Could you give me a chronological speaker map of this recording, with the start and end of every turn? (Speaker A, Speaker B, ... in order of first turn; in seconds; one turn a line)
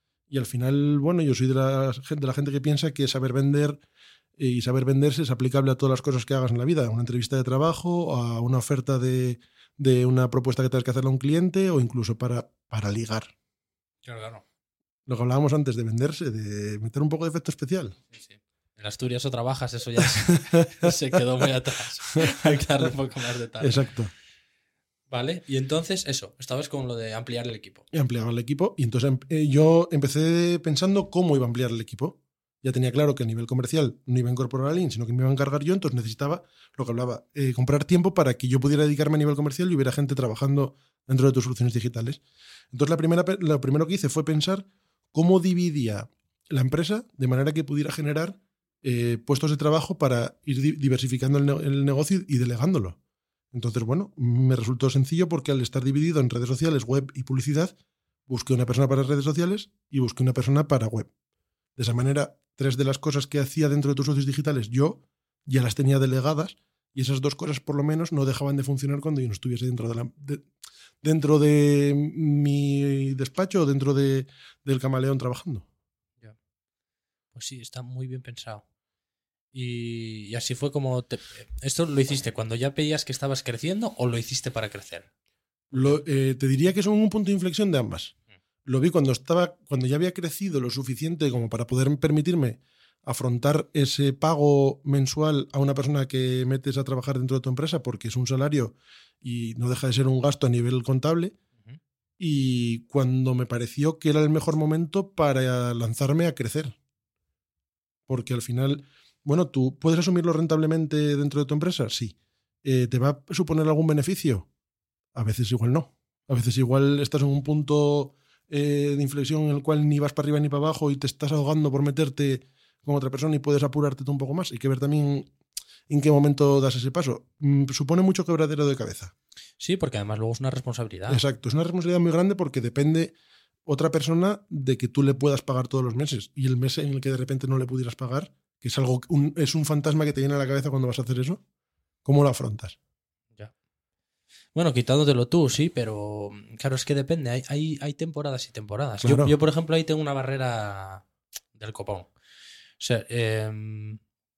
Speaker A: 0.3-3.8
Speaker A: 4.4-13.3
Speaker B: 14.0-14.4
Speaker A: 15.1-18.0
Speaker B: 18.1-23.8
Speaker A: 20.5-20.9
Speaker A: 23.6-24.1
Speaker B: 25.1-27.8
Speaker A: 27.9-42.2
Speaker A: 42.7-53.0
Speaker A: 53.5-57.7
Speaker A: 58.3-61.1
Speaker A: 61.8-70.5
Speaker A: 71.0-75.7
Speaker B: 77.3-78.6
Speaker B: 79.5-85.0
Speaker A: 85.7-88.1
Speaker B: 85.7-86.0
Speaker A: 88.7-101.3
Speaker A: 102.2-106.8
Speaker A: 108.1-114.5
Speaker A: 115.1-125.3
Speaker A: 125.9-129.1
Speaker B: 129.6-131.2
Speaker A: 131.1-133.1
Speaker A: 133.7-141.4
Speaker A: 142.0-142.8
Speaker B: 144.5-152.1
Speaker A: 149.0-149.3
Speaker B: 152.8-154.0